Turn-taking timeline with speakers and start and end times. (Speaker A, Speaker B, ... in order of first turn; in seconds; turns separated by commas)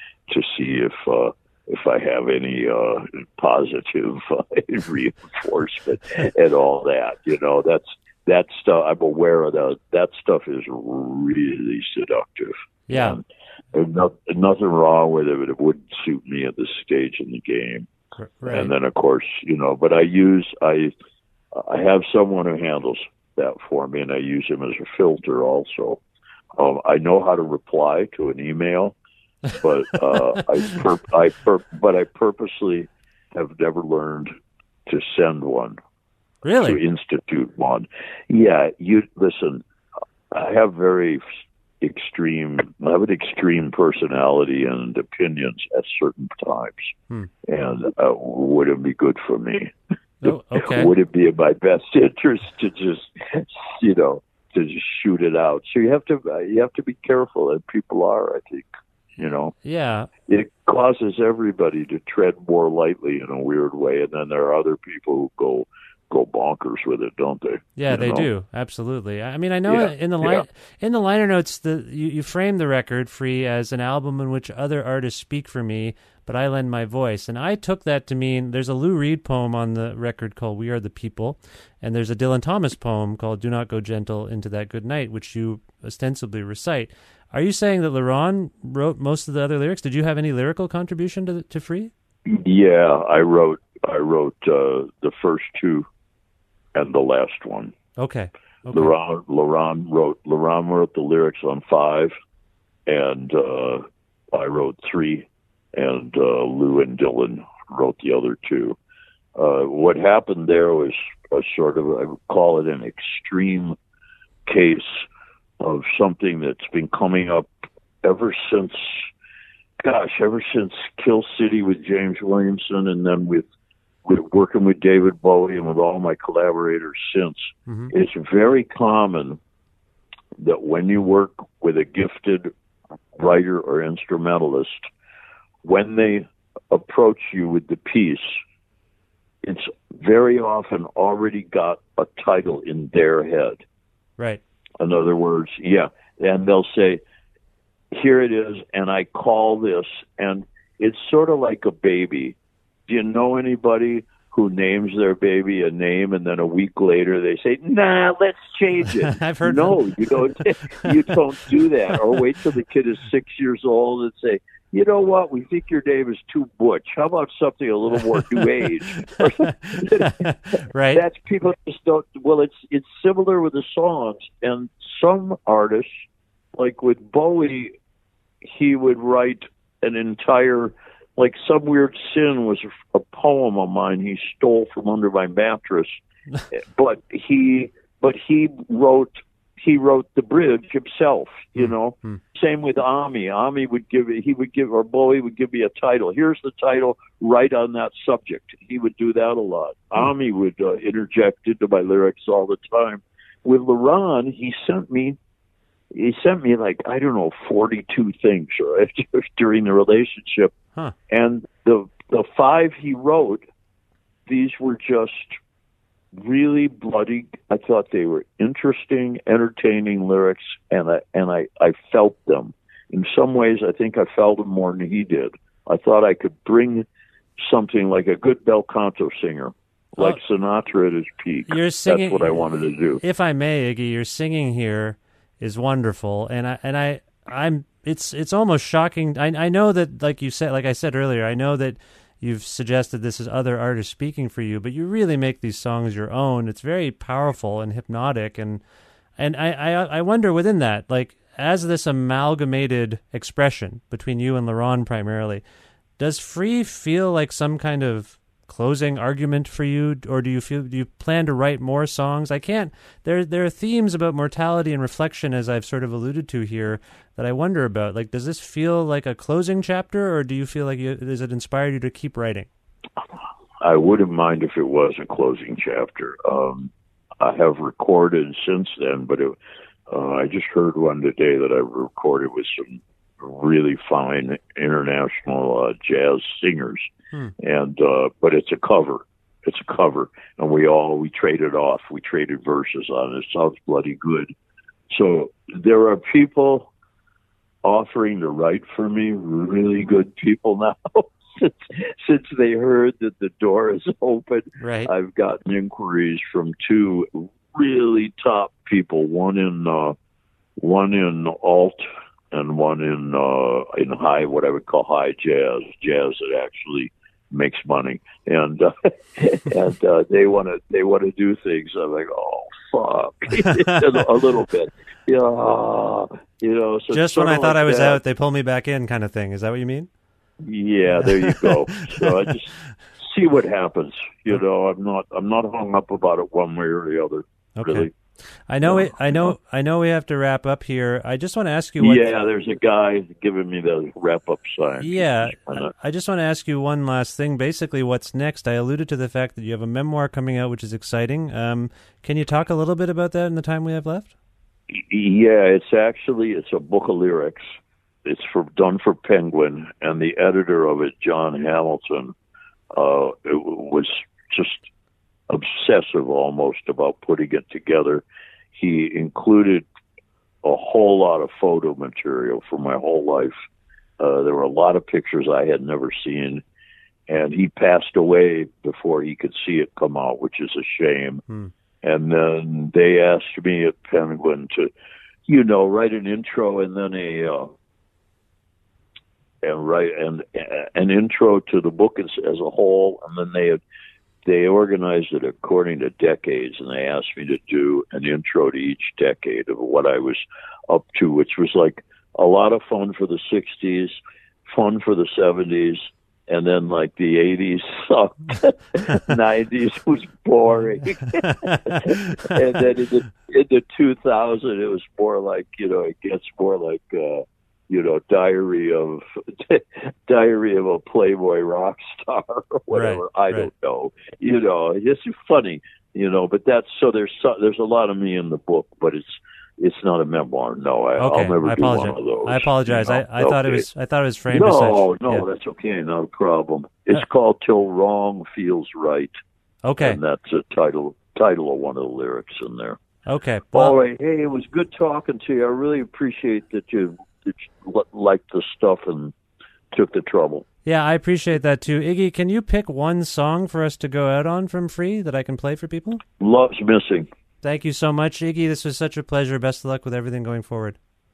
Speaker A: 0.3-17.9, Speaker B: 12.9-13.2, Speaker B: 18.2-18.7, Speaker A: 18.5-20.9, Speaker A: 21.5-26.0, Speaker A: 26.6-28.9, Speaker A: 29.5-34.3, Speaker A: 34.9-35.8, Speaker B: 36.4-36.8, Speaker A: 36.6-39.6, Speaker A: 40.3-41.2, Speaker A: 41.8-46.9, Speaker A: 47.5-49.7, Speaker B: 50.2-50.9, Speaker A: 50.2-58.6, Speaker A: 59.2-59.5, Speaker B: 59.5-60.1, Speaker A: 60.3-68.3, Speaker B: 67.8-91.9, Speaker A: 69.7-70.4, Speaker A: 92.2-95.9, Speaker A: 96.7-97.7, Speaker B: 98.0-98.9, Speaker A: 98.7-102.1, Speaker A: 102.9-108.8, Speaker A: 109.3-113.8, Speaker A: 114.5-115.0, Speaker A: 115.6-117.5, Speaker A: 118.0-119.1, Speaker A: 119.8-123.5, Speaker A: 124.0-129.4, Speaker A: 130.4-132.5, Speaker A: 133.2-134.8, Speaker A: 135.6-138.3, Speaker A: 139.4-143.6, Speaker A: 144.8-147.0, Speaker A: 147.9-152.3, Speaker A: 152.9-170.2, Speaker B: 159.1-160.1, Speaker B: 169.2-171.0, Speaker A: 170.9-175.9, Speaker A: 176.6-177.7, Speaker A: 178.4-185.9, Speaker A: 186.5-205.2, Speaker B: 191.6-192.2, Speaker A: 205.9-210.5, Speaker A: 211.1-213.4, Speaker A: 214.3-215.3, Speaker A: 216.2-226.8, Speaker A: 227.4-233.0, Speaker B: 231.5-232.4, Speaker B: 233.0-248.6, Speaker B: 249.2-255.4, Speaker B: 256.0-272.5, Speaker A: 273.6-279.4, Speaker A: 279.9-286.9, Speaker A: 287.4-294.3, Speaker A: 294.9-296.7, Speaker A: 297.6-309.9, Speaker B: 304.6-304.9, Speaker A: 310.6-328.0, Speaker B: 323.4-323.8, Speaker B: 326.9-329.9, Speaker A: 330.4-337.9, Speaker B: 331.0-332.2, Speaker B: 337.6-337.9, Speaker B: 338.5-342.1, Speaker A: 338.6-339.3, Speaker A: 341.8-345.7, Speaker B: 344.8-354.1, Speaker A: 354.7-357.5, Speaker A: 358.0-362.1, Speaker A: 362.7-364.7, Speaker A: 365.3-368.0, Speaker A: 368.5-369.6, Speaker A: 370.4-373.3, Speaker A: 374.0-376.4, Speaker A: 377.1-381.2, Speaker A: 381.8-384.7, Speaker A: 385.3-387.5, Speaker A: 389.4-393.6, Speaker A: 394.2-404.0, Speaker A: 404.5-433.6, Speaker B: 411.2-411.9, Speaker B: 422.7-423.5, Speaker B: 431.0-435.2, Speaker A: 434.3-439.1, Speaker B: 439.6-440.0, Speaker A: 439.8-442.8, Speaker B: 443.1-443.7, Speaker A: 443.5-449.1, Speaker A: 449.7-450.4, Speaker B: 450.6-456.0, Speaker A: 456.2-457.1, Speaker B: 457.4-460.8